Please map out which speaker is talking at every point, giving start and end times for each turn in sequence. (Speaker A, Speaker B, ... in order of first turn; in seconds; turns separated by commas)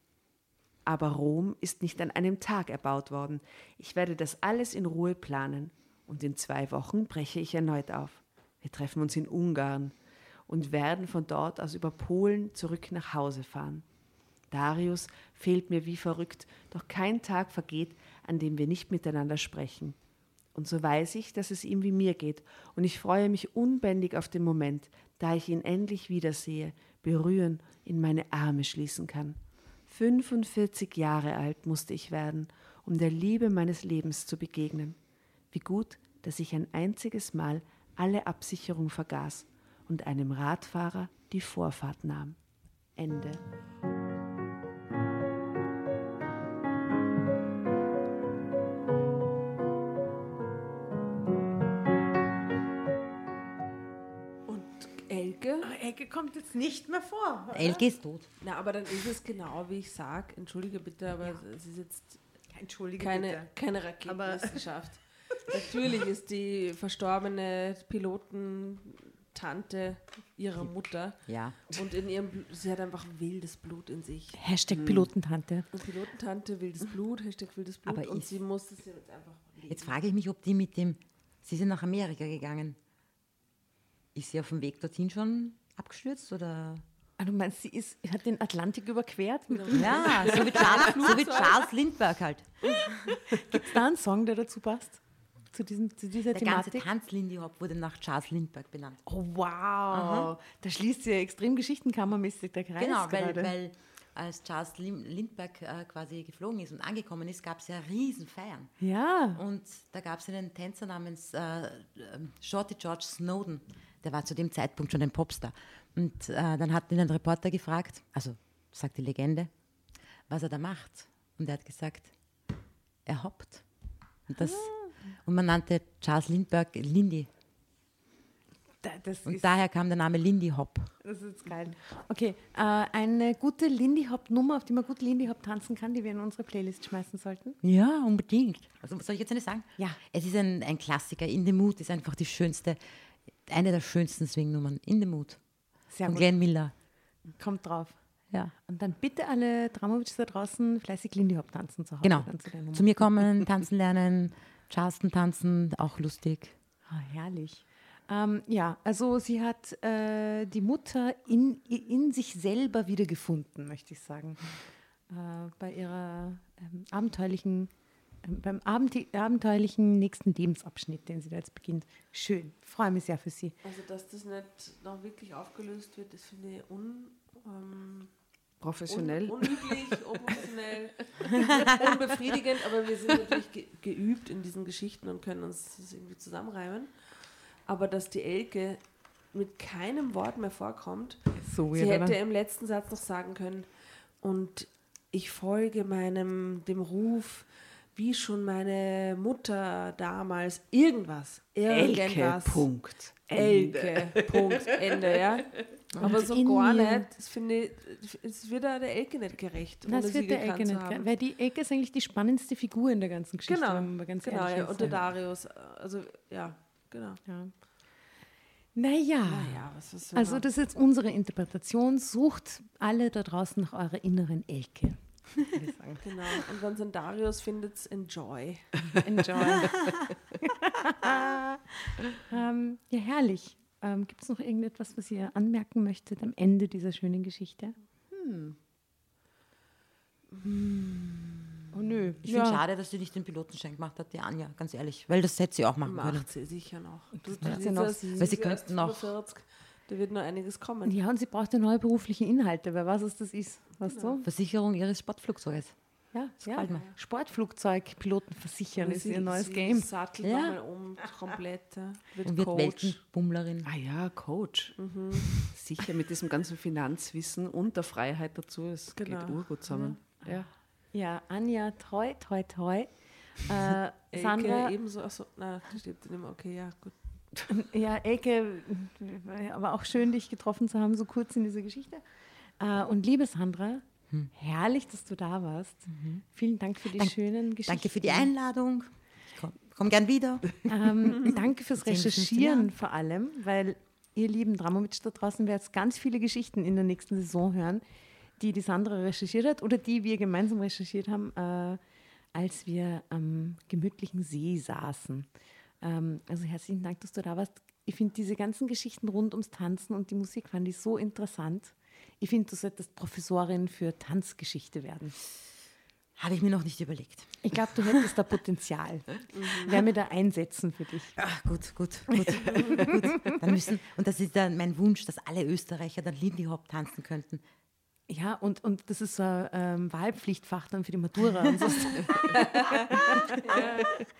Speaker A: 0.8-9.9, Speaker A: 10.5-13.8, Speaker A: 14.5-20.0, Speaker A: 20.5-35.0, Speaker A: 35.5-42.4, Speaker A: 43.0-43.4, Speaker B: 54.5-55.7, Speaker C: 55.6-57.8, Speaker D: 57.5-58.3, Speaker B: 58.4-62.2, Speaker C: 62.5-63.5, Speaker B: 63.0-74.4, Speaker C: 64.0-64.6, Speaker D: 71.2-71.6, Speaker C: 74.3-75.7, Speaker A: 74.7-75.1, Speaker B: 75.7-79.9, Speaker D: 77.8-78.3, Speaker D: 79.7-82.8, Speaker D: 84.1-86.8, Speaker C: 87.2-91.1, Speaker B: 89.5-91.7, Speaker D: 89.7-93.5, Speaker C: 93.1-96.8, Speaker D: 96.3-99.0, Speaker C: 99.1-103.5, Speaker D: 99.9-100.3, Speaker D: 102.8-108.7, Speaker C: 108.8-109.4, Speaker D: 109.3-119.5, Speaker D: 120.3-122.1, Speaker D: 123.0-123.7, Speaker D: 124.3-127.3, Speaker C: 124.4-124.9, Speaker C: 128.8-129.5, Speaker D: 129.2-130.9, Speaker C: 131.0-137.6, Speaker D: 137.6-142.8, Speaker D: 143.4-145.4, Speaker C: 145.9-146.3, Speaker D: 146.0-146.7, Speaker C: 147.4-148.0, Speaker C: 148.5-153.0, Speaker D: 152.0-156.6, Speaker C: 156.9-164.5, Speaker C: 165.1-167.7, Speaker C: 168.2-173.6, Speaker B: 173.6-178.1, Speaker A: 178.6-179.9, Speaker B: 178.9-193.7, Speaker D: 181.4-181.8, Speaker C: 191.3-192.2, Speaker B: 194.2-202.7, Speaker A: 201.7-205.0, Speaker B: 203.3-211.1, Speaker C: 206.0-207.1, Speaker C: 209.9-215.0, Speaker B: 213.5-217.2, Speaker C: 217.2-217.5, Speaker C: 218.7-226.2, Speaker B: 219.2-220.5, Speaker B: 226.0-228.9, Speaker C: 229.0-229.8, Speaker C: 230.4-238.5, Speaker C: 241.7-242.6, Speaker D: 242.2-246.3, Speaker B: 245.8-250.9, Speaker C: 247.2-248.3, Speaker D: 248.2-249.1, Speaker C: 250.9-254.2, Speaker B: 253.8-254.2, Speaker D: 254.2-255.7, Speaker C: 256.1-260.4, Speaker D: 256.4-256.9, Speaker B: 256.6-256.9, Speaker B: 258.8-263.0, Speaker D: 262.2-263.7, Speaker A: 263.6-264.8, Speaker B: 264.8-265.5, Speaker A: 265.3-270.5, Speaker B: 268.9-269.4, Speaker C: 269.7-274.7, Speaker B: 274.1-277.0, Speaker C: 277.5-282.0, Speaker C: 282.6-288.3, Speaker D: 285.9-286.2, Speaker D: 286.9-292.7, Speaker C: 290.7-297.8, Speaker C: 298.4-301.8, Speaker C: 302.3-305.3, Speaker C: 305.8-315.2, Speaker D: 316.2-317.7, Speaker C: 317.4-321.2, Speaker D: 321.2-327.4, Speaker C: 322.8-323.4, Speaker C: 328.1-333.9, Speaker B: 333.4-333.9